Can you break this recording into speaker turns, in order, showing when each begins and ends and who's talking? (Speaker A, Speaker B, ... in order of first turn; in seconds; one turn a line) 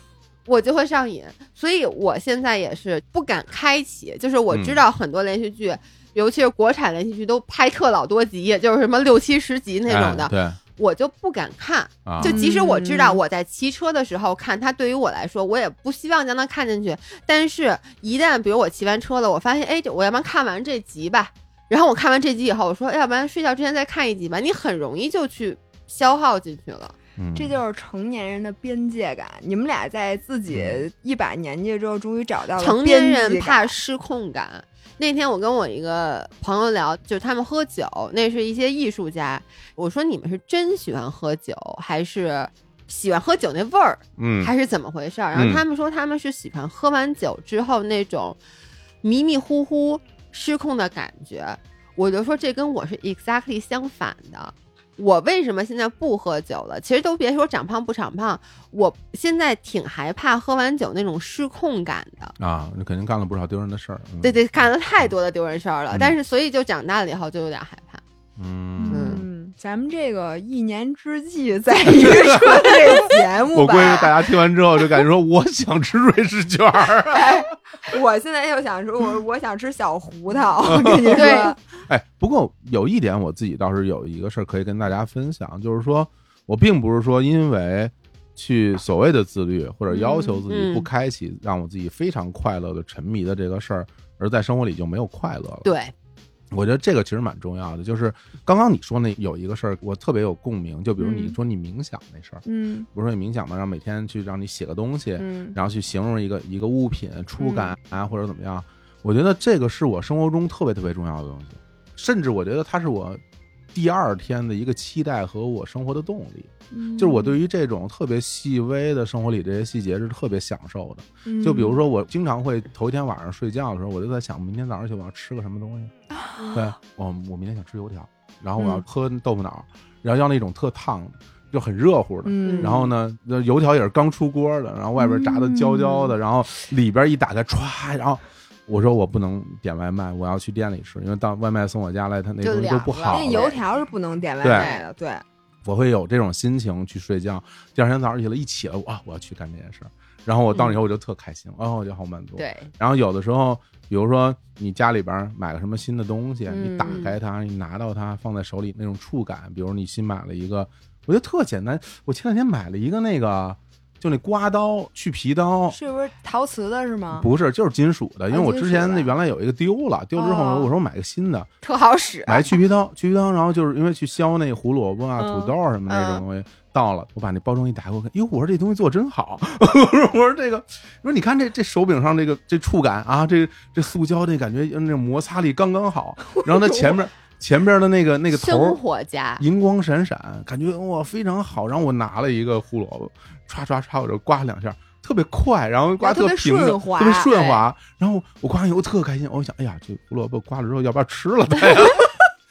Speaker A: 0.5-26.9
Speaker B: 4.5-4.8
Speaker B: 9.9-10.6
Speaker B: 12.1-12.3
Speaker C: 12.2-13.2
Speaker B: 27.2-27.6
Speaker C: 27.4-33.7
Speaker B: 30.5-30.8
Speaker A: 32.6-48.4
Speaker B: 44.2-44.5
Speaker B: 45.3-45.6
Speaker A: 49.0-62.3
Speaker B: 62.4-64.4
Speaker A: 64.2-68.0
Speaker B: 68.4-69.2
Speaker C: 68.8-74.1
Speaker A: 68.9-69.2
Speaker B: 71.9-73.0
Speaker B: 73.5-77.4
Speaker C: 77.1-81.6
Speaker B: 80.6-95.7
Speaker A: 81.1-81.5
Speaker A: 89.9-90.9
Speaker A: 95.6-95.9
Speaker B: 96.5-113.2
Speaker C: 101.0-101.3
Speaker C: 102.4-102.9
Speaker C: 105.2-105.5
Speaker C: 107.4-107.7
Speaker B: 113.7-125.9
Speaker C: 116.7-117.4
Speaker C: 121.2-121.8
Speaker C: 126.1-126.6
Speaker B: 126.5-143.5
Speaker C: 132.2-132.9
Speaker A: 132.4-132.8
Speaker C: 135.0-136.1
Speaker A: 142.4-143.6
Speaker C: 143.1-145.2
Speaker B: 144.4-144.7
Speaker A: 144.5-144.8
Speaker B: 145.6-165.8
Speaker A: 150.5-150.8
Speaker A: 152.4-152.7
Speaker C: 156.5-157.0
Speaker A: 156.8-157.2
Speaker C: 165.7-167.3
Speaker B: 167.1-171.5
Speaker C: 168.3-169.1
Speaker C: 170.2-170.4
Speaker A: 170.3-170.6
Speaker A: 171.6-172.5
Speaker B: 172.3-188.8
Speaker C: 175.2-175.5
Speaker A: 175.9-176.2
Speaker A: 188.3-189.4
Speaker B: 189.4-202.2
Speaker C: 196.0-197.4
Speaker A: 197.3-197.6